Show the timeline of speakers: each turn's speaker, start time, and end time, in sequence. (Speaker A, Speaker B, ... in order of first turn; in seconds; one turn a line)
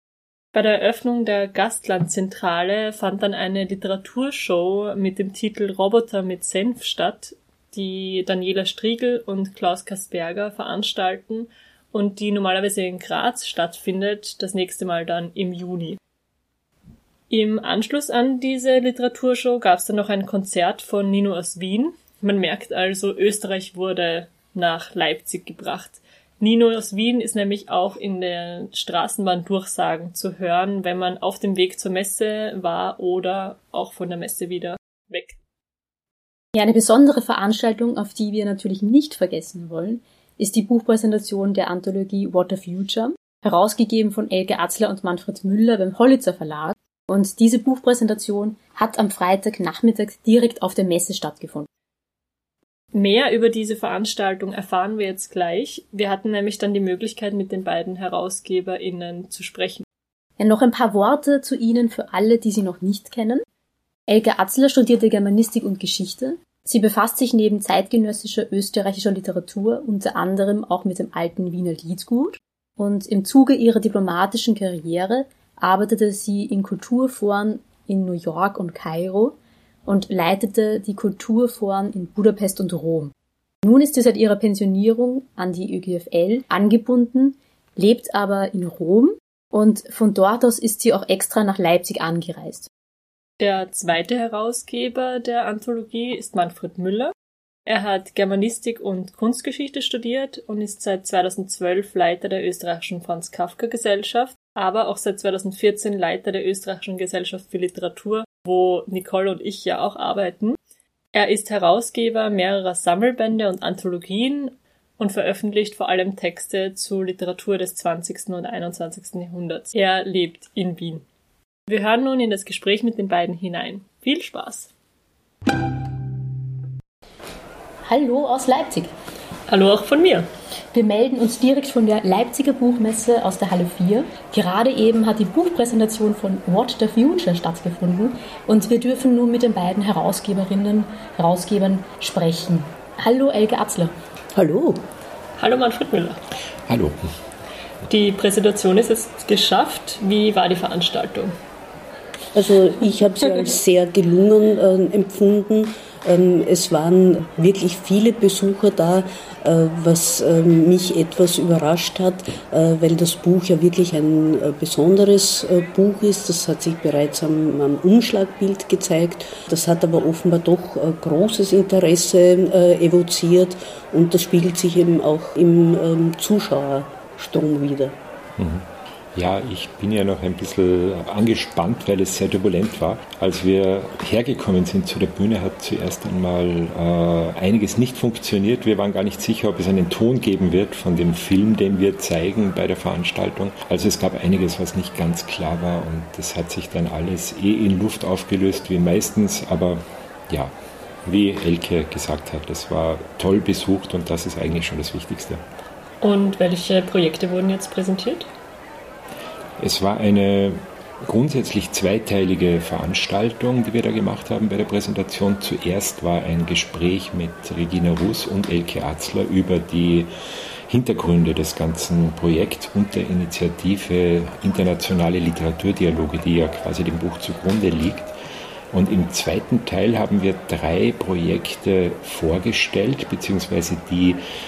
Speaker A: 0.5-16.0
Speaker A: 17.3-35.4
Speaker B: 36.5-51.7
Speaker A: 52.9-59.8
Speaker B: 60.4-63.4
Speaker B: 64.1-83.1
Speaker B: 83.6-92.7
Speaker A: 93.4-97.1
Speaker A: 97.7-110.6
Speaker A: 111.1-121.0
Speaker A: 121.7-124.7
Speaker B: 127.8-128.9
Speaker A: 129.5-130.3
Speaker B: 130.7-143.9
Speaker C: 144.3-144.8
Speaker A: 145.4-146.2
Speaker D: 146.7-147.1
Speaker A: 147.9-151.3
Speaker C: 152.3-177.9
Speaker D: 178.4-200.5
Speaker D: 201.0-205.4
Speaker A: 206.0-208.3
Speaker D: 209.6-220.1
Speaker D: 220.7-228.1
Speaker D: 228.7-234.2